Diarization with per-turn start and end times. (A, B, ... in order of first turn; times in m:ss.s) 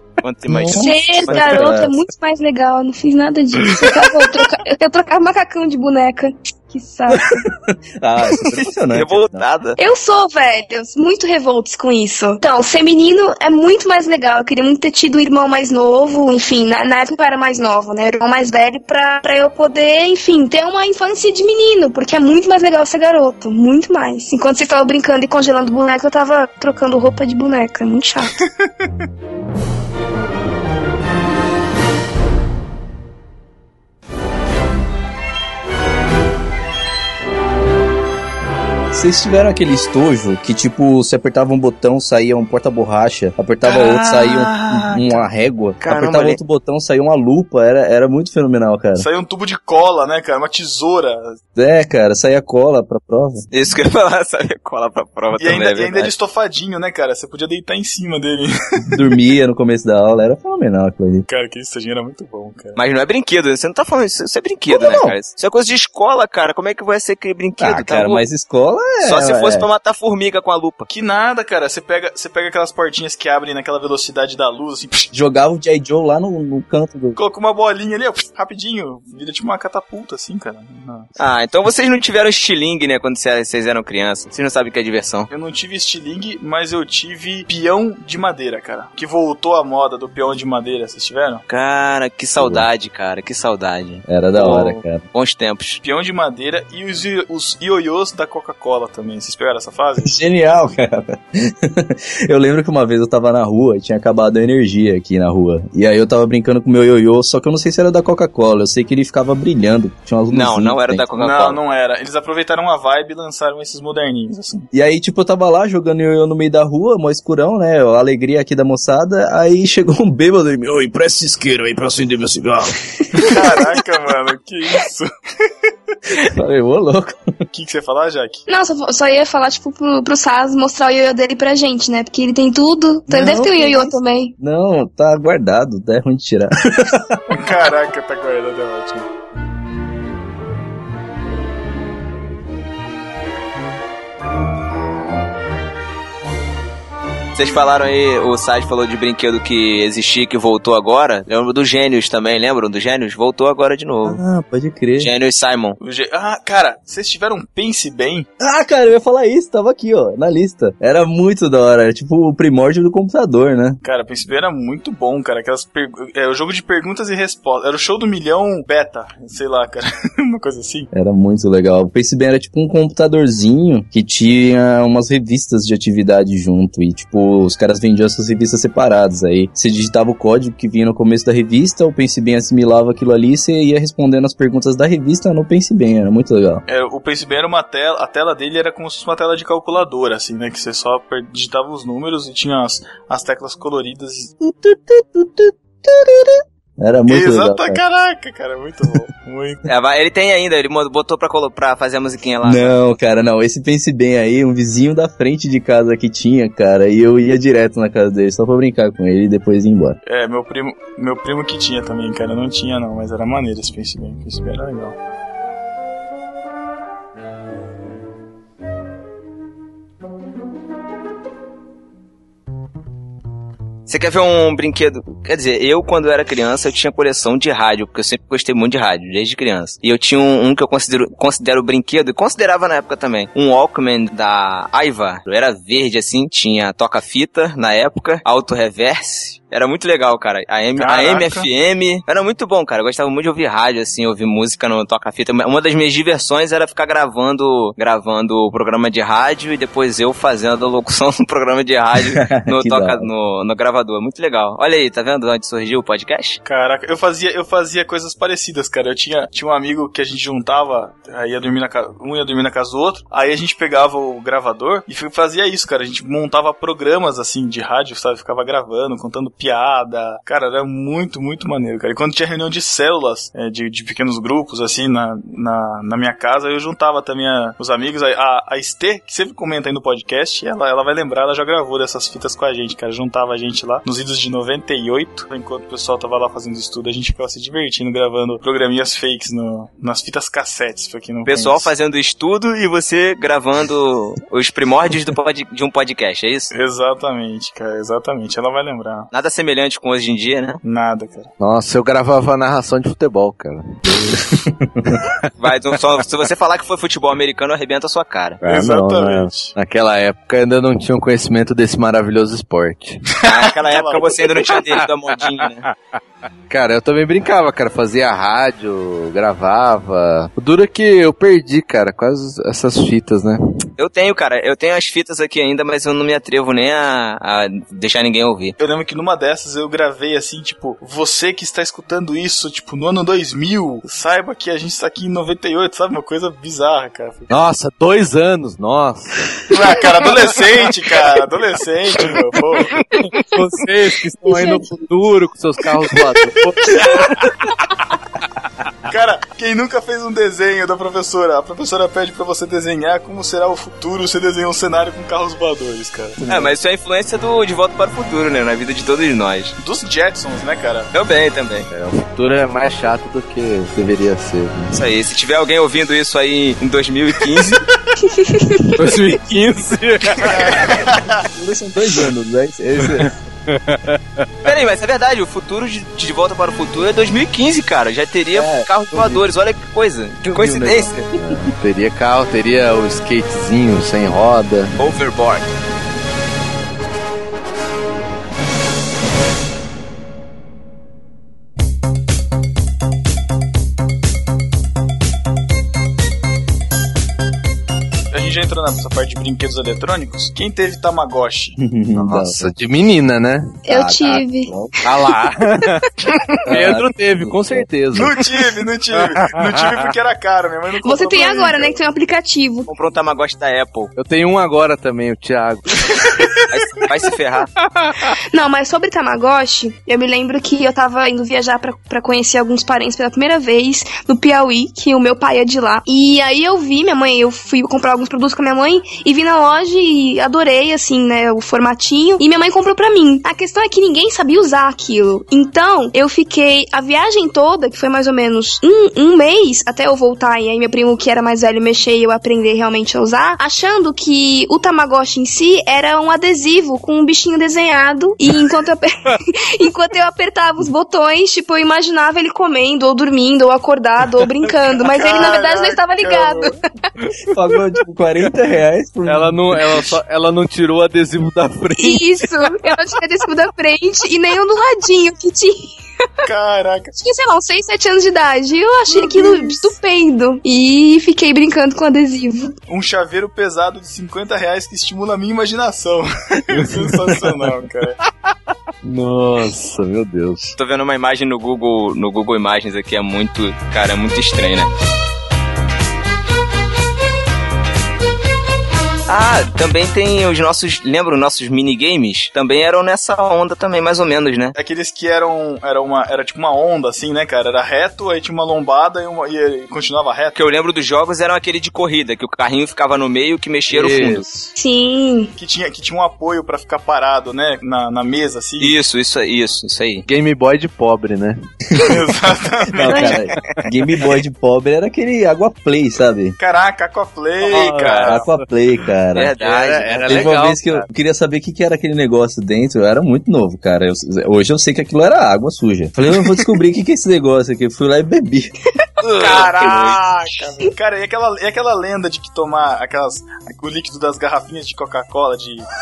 0:00.2-0:01.8 A
0:00.5-0:02.0 B
0:00.7-0:07.3 C
0:07.1-0:09.5 B
0:08.9-0:09.8 A
0:09.8-0:28.3 C
0:28.6-0:28.9 D
0:38.9-0:49.1 B
0:43.6-0:45.2 D
0:45.8-0:46.4 A
0:49.0-0:51.4 D
0:51.6-0:53.5 B
0:53.5-0:56.1 A
0:55.4-0:59.0 D
0:58.9-1:01.2 B
1:01.3-1:02.8 D
1:02.8-1:08.2 A
1:04.7-1:05.2 B
1:07.6-1:09.7 B
1:09.0-1:10.9 A
1:10.9-1:15.1 D
1:15.1-1:17.2 B
1:17.2-1:21.1 D
1:21.2-1:25.3 A
1:25.3-1:31.4 D
1:31.5-1:35.8 A
1:32.4-1:32.7 B
1:34.0-1:35.0 B
1:35.8-1:40.1 D
1:40.0-1:51.1 B
1:50.3-1:51.6 A
1:51.2-1:54.7 D
1:54.7-2:03.3 B
2:03.2-2:05.7 D
2:06.2-2:07.2 B
2:07.5-2:08.4 D
2:08.5-2:14.3 C
2:13.1-2:17.2 B
2:17.3-2:19.0 D
2:27.3-2:34.2 A
2:34.0-2:35.1 B
2:35.0-2:35.8 A
2:35.8-2:38.3 D
2:38.4-2:43.8 B
2:43.8-2:50.9 D
2:50.9-3:06.6 B
3:06.7-3:14.3 D
3:14.4-3:17.8 B
3:17.1-3:19.6 D
3:19.7-3:22.8 A
3:22.4-3:30.0 B
3:30.0-3:35.0 D
3:43.9-4:16.4 A
4:00.7-4:01.5 D
4:12.0-4:13.1 B
4:16.4-4:51.7 D
4:51.3-4:56.5 A
4:56.5-4:59.1 D
4:59.1-5:00.6 A
5:00.6-5:01.3 D
5:01.4-5:04.2 E
5:04.3-5:05.0 B
5:05.4-5:08.4 A
5:08.4-5:13.0 E
5:08.4-5:09.5 D
5:13.2-5:14.3 D
5:13.2-5:15.6 A
5:16.5-5:23.4 E
5:23.8-5:28.5 A
5:28.6-5:37.3 D
5:37.3-5:39.4 E
5:39.5-5:42.7 D
5:43.1-5:47.0 E
5:44.2-5:44.6 C
5:48.8-5:56.2 D
5:56.2-5:56.6 B
5:56.3-5:59.6 A
5:59.6-6:00.9 D
6:00.9-6:01.7 A
6:01.7-6:04.8 E
6:04.7-6:07.6 A
6:08.2-6:08.8 C
6:08.8-6:10.6 E
6:10.2-6:11.2 D
6:11.2-6:13.1 B
6:13.7-6:14.0 E
6:14.4-6:20.9 A
6:18.3-6:19.2 B
6:20.2-6:21.5 B
6:21.1-6:24.7 E
6:24.8-6:25.5 A
6:38.1-6:41.6 D
6:41.6-6:42.5 B
6:42.0-6:43.6 E
6:43.6-6:44.5 C
6:43.7-6:44.7 B
6:44.8-6:45.8 E
6:46.4-6:47.7 B
6:46.5-6:48.1 E
6:47.9-6:51.8 D
6:49.0-6:49.6 E
6:50.8-6:52.7 C
6:52.7-6:53.9 A
6:54.0-6:55.8 E
6:56.5-6:57.5 A
6:58.3-7:36.6 C
7:34.8-7:36.5 D
7:37.3-7:39.4 B
7:39.0-7:42.3 E
7:41.8-7:46.3 C
7:46.2-7:46.9 D
7:47.0-7:52.5 C
7:52.7-7:58.0 D
7:56.7-7:57.1 E
7:58.8-8:00.6 E
8:00.6-8:04.7 A
8:09.1-8:14.5 A
8:14.5-8:20.4 D
8:20.3-8:24.3 A
8:23.7-8:24.5 E
8:24.6-8:25.3 C
8:25.4-8:28.8 D
8:28.6-8:30.0 A
8:30.0-8:31.4 E
8:31.8-8:33.3 D
8:32.8-8:36.4 B
8:32.9-8:33.2 C
8:36.4-8:38.2 D
8:37.4-8:38.4 E
8:37.7-8:38.0 A
8:38.0-8:39.3 B
8:39.1-8:40.4 A
8:39.3-8:40.9 E
8:40.0-8:48.5 B
8:49.1-8:55.6 D
8:49.2-8:49.9 A